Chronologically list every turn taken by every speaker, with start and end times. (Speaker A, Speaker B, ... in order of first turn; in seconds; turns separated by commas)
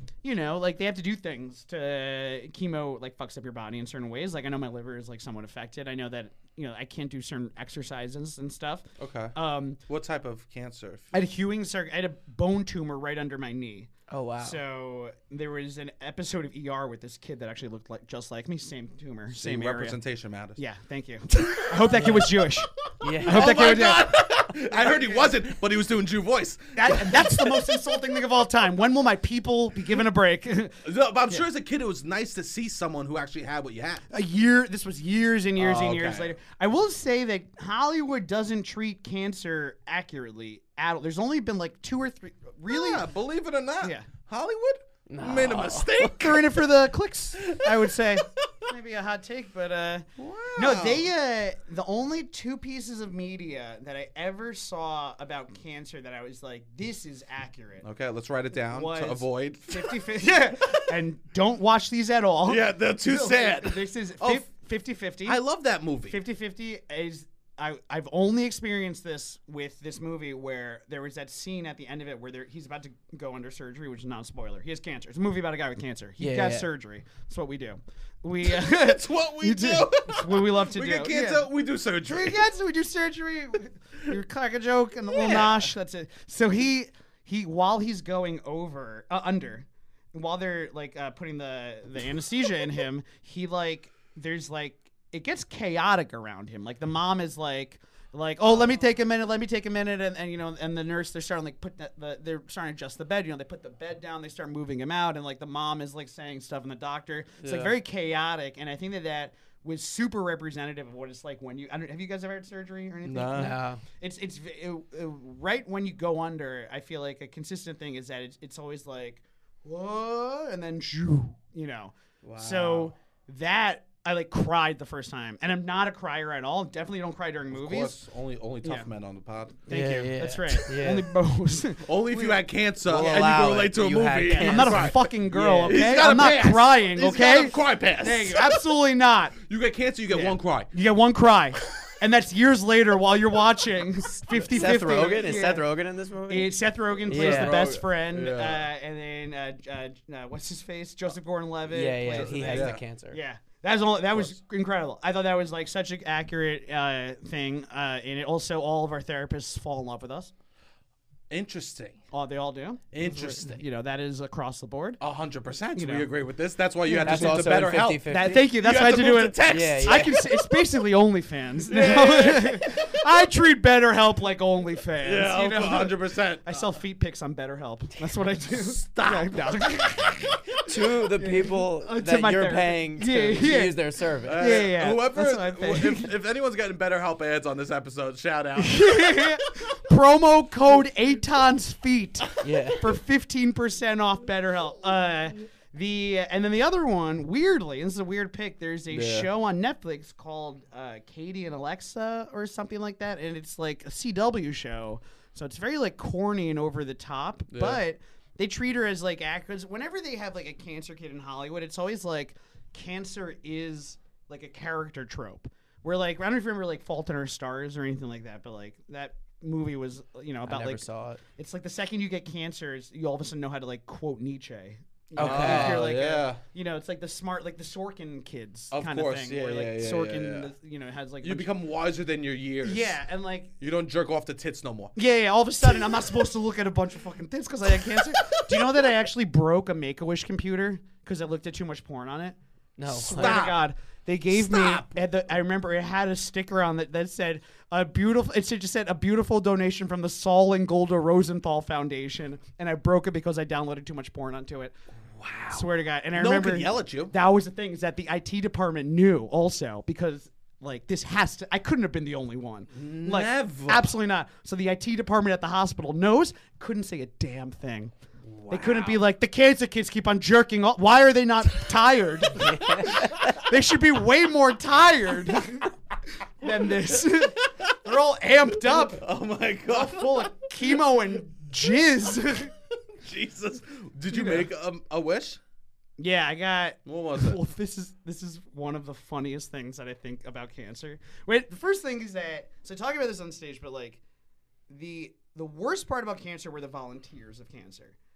Speaker A: 0.2-9.8, Speaker B: 9.0-11.1, Speaker A: 11.1-20.0, Speaker C: 14.1-14.6, Speaker B: 19.3-20.6, Speaker A: 20.6-25.3, Speaker B: 21.3-21.9, Speaker C: 21.9-22.4, Speaker C: 23.0-23.6, Speaker B: 23.1-27.9, Speaker A: 26.8-31.4, Speaker B: 30.8-34.0, Speaker A: 34.1-43.0, Speaker B: 35.6-36.3, Speaker B: 42.7-46.6, Speaker A: 43.8-44.1, Speaker C: 45.1-46.1, Speaker A: 46.2-57.9, Speaker B: 47.4-48.5, Speaker B: 50.2-51.1, Speaker B: 57.8-61.0, Speaker A: 58.7-65.4, Speaker B: 62.5-64.5, Speaker B: 65.3-66.2, Speaker A: 66.1-81.5, Speaker C: 76.2-76.7, Speaker B: 78.4-82.4, Speaker A: 82.0-128.0, Speaker B: 85.1-85.7, Speaker B: 107.4-107.7, Speaker B: 113.0-113.6, Speaker C: 113.3-113.8, Speaker B: 122.2-122.9, Speaker B: 127.5-129.6, Speaker A: 128.6-128.9, Speaker A: 129.7-132.4, Speaker C: 129.7-131.1, Speaker B: 131.8-138.6, Speaker C: 132.8-135.8, Speaker A: 134.3-139.4, Speaker B: 139.4-140.7, Speaker A: 140.1-145.7, Speaker B: 144.3-144.8, Speaker C: 144.3-146.5, Speaker A: 146.3-160.3, Speaker B: 147.1-148.7, Speaker C: 147.1-147.7, Speaker C: 151.7-153.2, Speaker B: 152.1-152.8, Speaker B: 161.3-162.0, Speaker A: 162.1-165.0, Speaker B: 162.9-163.6, Speaker B: 165.0-170.6, Speaker A: 165.8-166.1, Speaker A: 166.8-183.8, Speaker C: 167.0-168.5, Speaker C: 169.4-170.3, Speaker B: 171.7-173.1, Speaker B: 175.0-176.6, Speaker B: 178.5-180.2, Speaker C: 180.7-184.6, Speaker B: 184.2-189.5, Speaker A: 184.3-186.1, Speaker A: 188.6-220.8, Speaker C: 192.4-192.9, Speaker B: 198.9-199.3, Speaker B: 207.5-207.8, Speaker C: 220.4-221.2, Speaker A: 221.4-231.5, Speaker C: 225.2-225.9, Speaker B: 225.2-226.4, Speaker B: 228.7-230.5, Speaker B: 231.2-233.0, Speaker A: 232.6-233.5, Speaker B: 233.6-234.9, Speaker A: 234.9-242.4, Speaker B: 235.6-236.2, Speaker B: 237.7-238.9, Speaker C: 242.8-243.5, Speaker A: 242.9-254.8, Speaker B: 243.1-243.6, Speaker B: 244.3-245.0, Speaker B: 255.1-257.1, Speaker A: 255.5-267.9, Speaker B: 262.7-263.9, Speaker B: 268.3-269.0, Speaker A: 268.5-275.7, Speaker B: 272.4-273.3, Speaker C: 272.5-273.1, Speaker A: 276.4-279.0, Speaker B: 276.4-277.8, Speaker B: 278.5-280.8, Speaker A: 279.7-282.5, Speaker B: 282.9-285.4, Speaker A: 284.1-284.5, Speaker A: 286.0-294.0, Speaker B: 286.9-287.4, Speaker A: 294.7-298.0